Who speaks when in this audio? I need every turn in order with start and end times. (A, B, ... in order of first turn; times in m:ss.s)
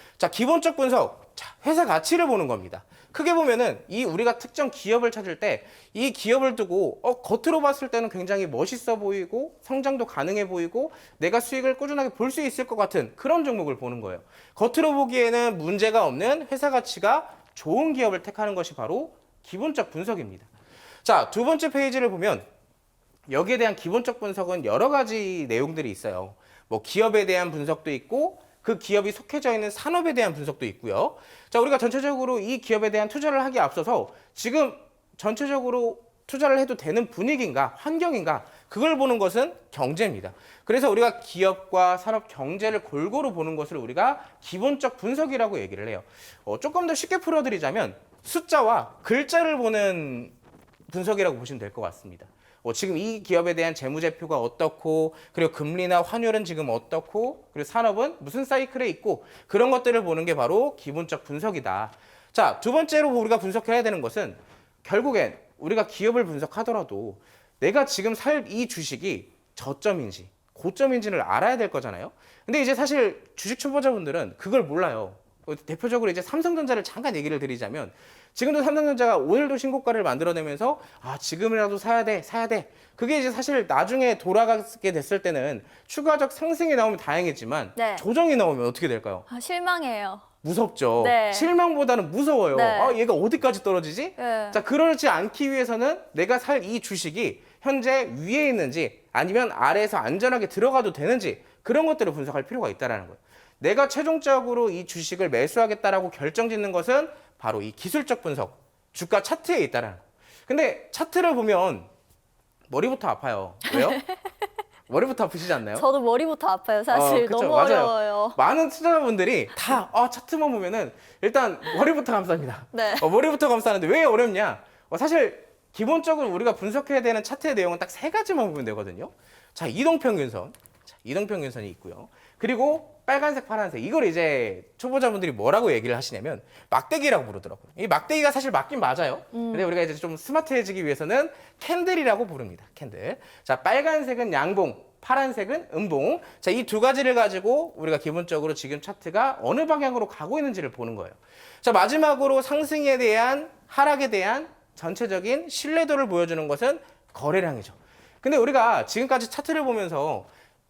0:00.2-0:20.5 A
0:21.0-0:22.5 A
0:23.3-0:50.3 A
0:50.9-1:29.2 A
1:27.8-1:28.0 B
1:29.3-1:30.2 B
1:30.4-1:51.9 A
1:31.0-1:31.5 B
1:32.5-1:33.0 B
1:34.2-1:34.6 B
1:52.7-1:54.0 A
1:53.7-1:54.3 B
1:54.9-1:55.8 A
1:55.7-1:58.4 B
1:56.9-2:40.3 A
2:02.7-2:03.1 B
2:19.3-2:19.7 B